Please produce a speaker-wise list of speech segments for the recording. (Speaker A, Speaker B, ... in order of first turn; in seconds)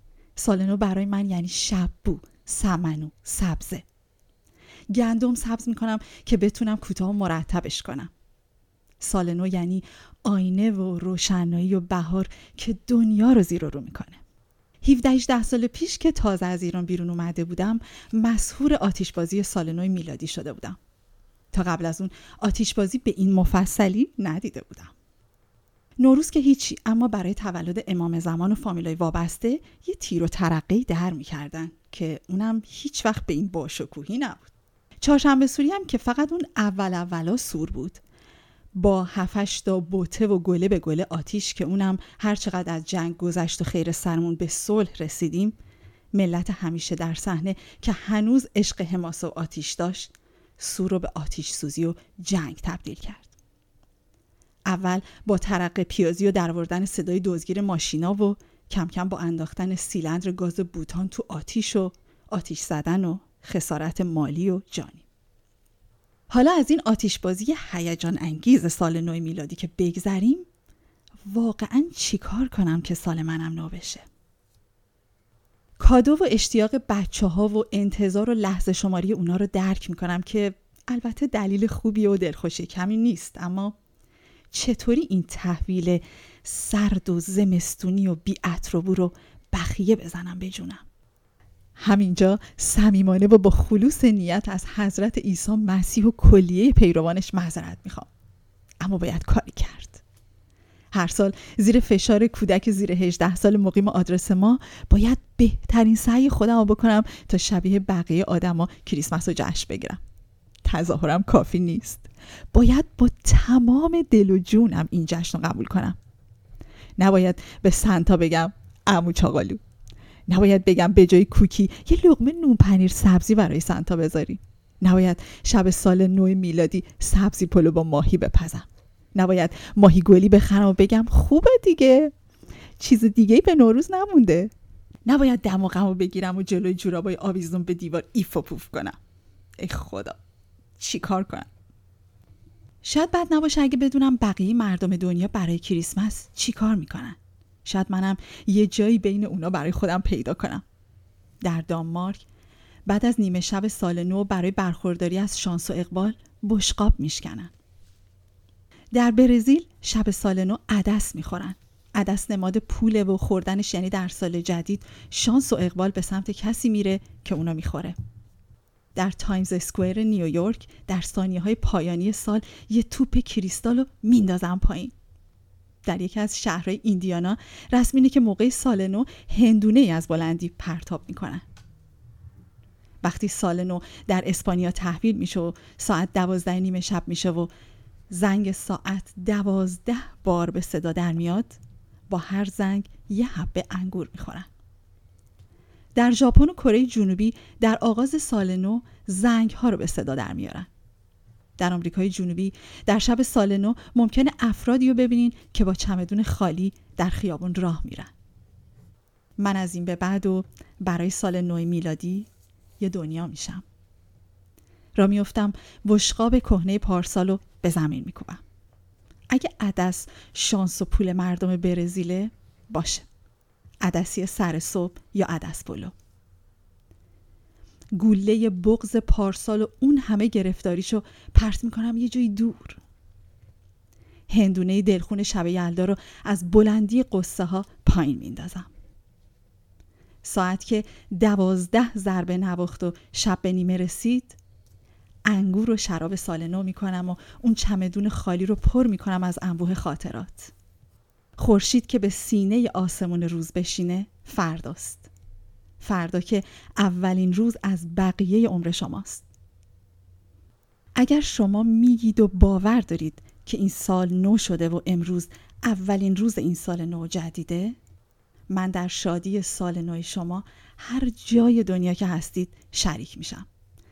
Speaker A: 0.4-3.9, 4.9-8.1, 9.0-14.2, 14.8-20.8, 21.5-24.9, 26.0-38.0, 38.8-45.6, 46.1-53.3, 54.7-65.0, 66.3-70.5, 71.3-74.1, 75.8-83.8, 84.5-90.8, 91.8-98.1, 98.8-100.0, 100.9-110.0, 110.7-116.0, 117.0-119.6, 120.3-132.1, 132.8-134.5, 135.1-139.0, 139.6-140.2, 140.8-141.5, 142.8-150.6, 151.4-152.2, 152.9-157.5, 158.9-168.0, 169.0-174.9, 175.8-181.4, 183.0-187.5, 188.1-194.5, 195.9-200.7, 201.6-208.1, 209.4-212.3, 212.8-213.6, 215.0-218.4, 219.3-223.1, 223.8-225.9, 228.0-232.8, 234.3-238.7, 240.2-244.4, 245.3-250.5, 251.4-255.1, 255.8-259.2, 261.0-267.8, 268.5-273.5